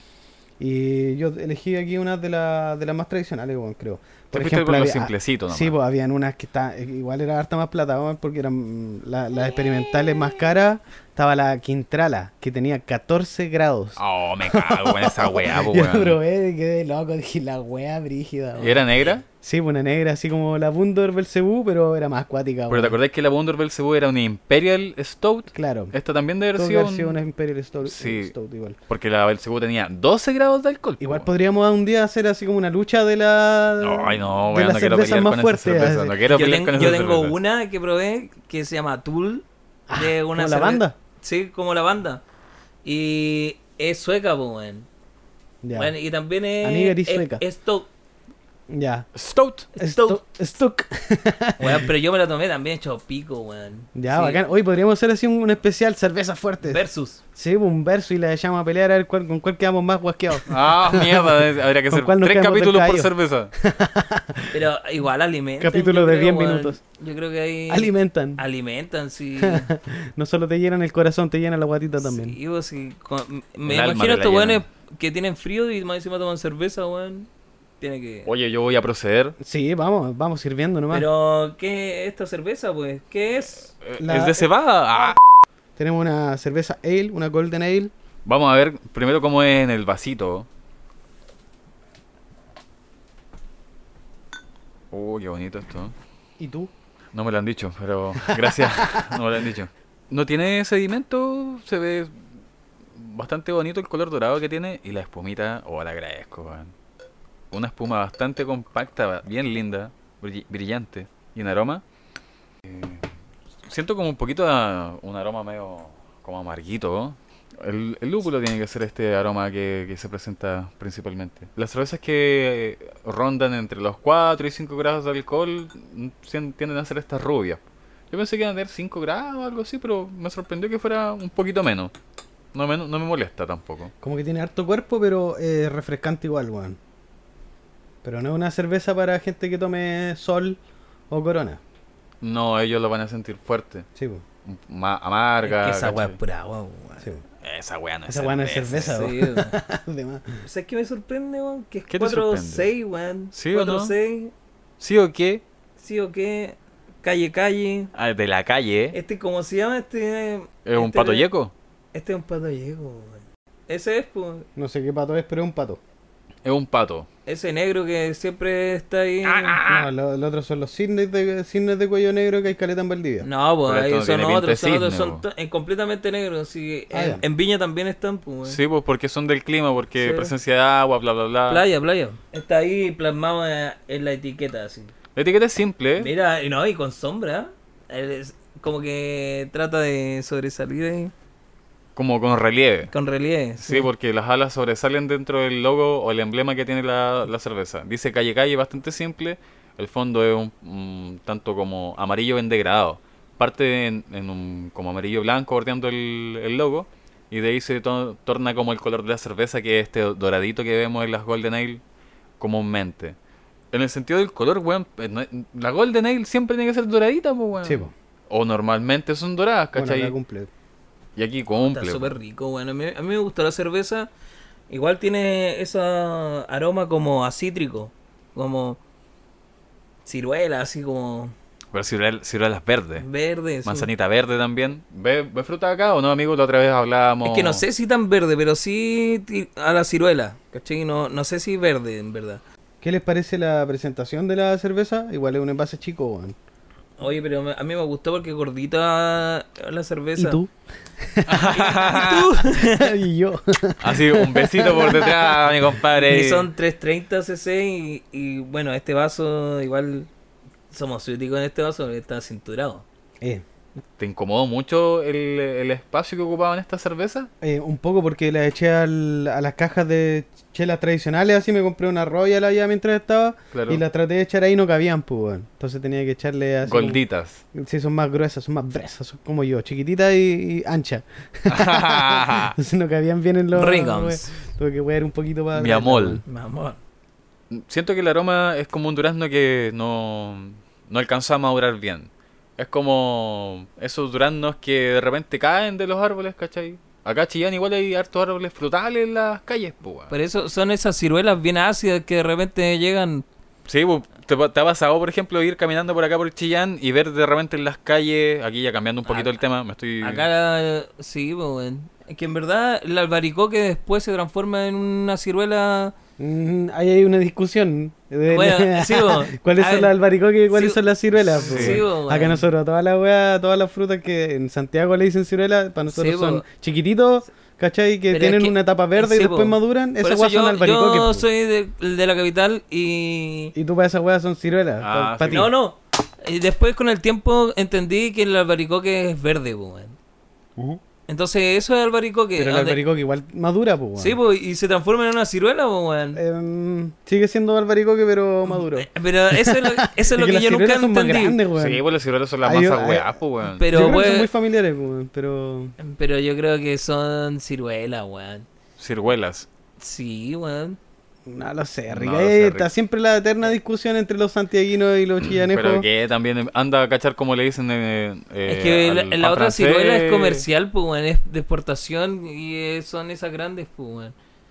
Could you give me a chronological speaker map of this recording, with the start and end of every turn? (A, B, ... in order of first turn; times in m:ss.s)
0:00.6-0:23.0 A
0:04.3-0:05.8 B
0:14.0-0:16.2 B
0:18.6-0:19.2 B
0:22.7-0:27.2 B
0:25.5-0:25.9 A
0:26.6-0:28.8 A
0:27.9-0:28.3 B
0:28.9-0:31.3 B
0:31.0-0:36.2 A
0:33.8-0:37.4 B
0:36.3-0:42.2 C
0:39.9-0:41.0 A
0:42.8-0:44.9 C
0:45.6-0:45.9 A
0:45.8-0:47.9 C
0:46.6-0:47.4 A
0:48.7-0:49.1 A
0:49.2-0:49.7 B
0:49.8-0:50.2 C
0:49.8-0:51.9 A
0:51.6-0:54.4 C
0:54.0-0:56.8 A
0:56.6-0:57.2 C
0:57.4-1:04.6 A
1:00.5-1:03.5 B
1:04.5-1:09.7 C
1:05.6-1:06.8 A
1:07.7-1:08.4 A
1:09.4-1:12.4 A
1:12.0-1:17.3 C
1:13.7-1:14.6 B
1:17.8-1:18.3 C
1:18.3-1:19.4 B
1:19.4-1:21.1 A
1:20.9-1:23.7 C
1:23.8-1:25.2 B
1:24.0-1:24.5 A
1:25.8-1:27.9 A
1:28.3-1:30.5 B
1:34.9-1:36.0 B
1:36.4-1:36.7 A
1:37.1-1:42.1 B
1:38.4-1:39.0 A
1:43.0-1:46.7 B
1:47.5-1:51.8 B
1:52.6-1:53.0 B
1:53.7-2:07.6 B
2:08.1-2:11.9 B
2:12.5-2:13.9 B
2:14.0-2:16.8 A
2:18.0-2:20.6 A
2:21.1-2:21.6 A
2:22.2-2:23.9 B
2:24.0-2:24.2 A
2:24.4-2:26.2 B
2:25.4-2:27.1 C
2:27.4-2:29.0 B
2:28.1-2:30.4 A
2:28.9-2:29.5 C
2:30.4-2:34.3 C
2:31.9-2:32.7 B
2:33.3-2:33.9 B
2:34.8-2:35.4 B
2:35.8-2:37.9 C
2:37.9-2:39.0 B
2:38.9-2:41.3 C
2:40.7-2:41.5 B
2:41.9-2:44.5 C
2:44.6-2:45.8 A
2:46.4-2:47.1 B
2:47.3-2:49.6 C
2:49.2-2:49.9 B
2:49.6-2:53.3 A
2:53.2-2:58.6 C
2:53.7-2:55.2 B
2:56.9-2:57.2 A
2:58.5-3:01.6 B
3:00.0-3:00.3 C
3:01.5-3:04.9 C
3:05.2-3:06.1 B
3:06.0-3:11.1 C
3:12.0-3:12.9 B
3:12.9-3:13.9 C
3:13.6-3:31.8 B
3:32.4-3:33.2 B
3:33.7-3:40.1 B
3:37.6-3:37.9 A
3:39.8-3:40.5 A
3:41.2-3:42.1 B
3:41.6-3:44.1 C
3:44.7-3:48.8 C
3:50.1-3:51.3 C
3:51.7-3:53.1 B
3:53.0-3:53.9 C
3:53.6-3:57.6 B
3:57.2-4:02.4 C
4:02.8-4:06.4 A
4:07.0-4:10.4 C
4:10.2-4:11.6 A
4:11.3-4:12.3 B
4:11.5-4:12.9 C
4:12.6-4:15.5 A
4:13.8-4:16.5 B
4:15.9-4:20.1 C
4:20.7-4:22.8 C
4:24.0-4:27.3 B
4:27.4-4:37.0 A
4:33.5-4:33.8 B
4:36.6-4:37.4 B
4:37.5-4:46.2 A
4:41.5-4:42.6 B
4:43.5-4:44.3 C
4:45.5-4:46.2 B
4:46.3-4:46.8 C
4:47.5-5:00.1 B
5:00.1-5:03.3 C
5:03.7-5:10.3 B
5:09.1-5:09.4 C
5:10.0-5:15.9 C
5:16.2-5:31.3 A
5:18.3-5:19.9 C
5:20.5-5:22.4 C
5:21.3-5:21.8 B
5:25.9-5:26.4 C
5:28.1-5:33.5 C
5:33.6-5:35.5 A
5:34.8-5:35.4 B
5:35.3-5:40.0 C
5:41.1-5:42.8 C
5:42.4-5:44.2 A
5:44.0-5:46.2 C
5:46.2-5:51.8 A
5:48.5-5:51.4 C
5:51.6-5:53.6 B
5:52.4-5:53.1 A
5:53.6-5:54.3 C
5:53.6-5:55.8 A
5:55.8-5:58.5 C
5:58.8-5:59.5 B
5:59.8-6:00.8 C
6:01.3-6:05.9 A
6:01.9-6:02.7 B
6:05.4-6:10.4 B
6:08.5-6:14.2 C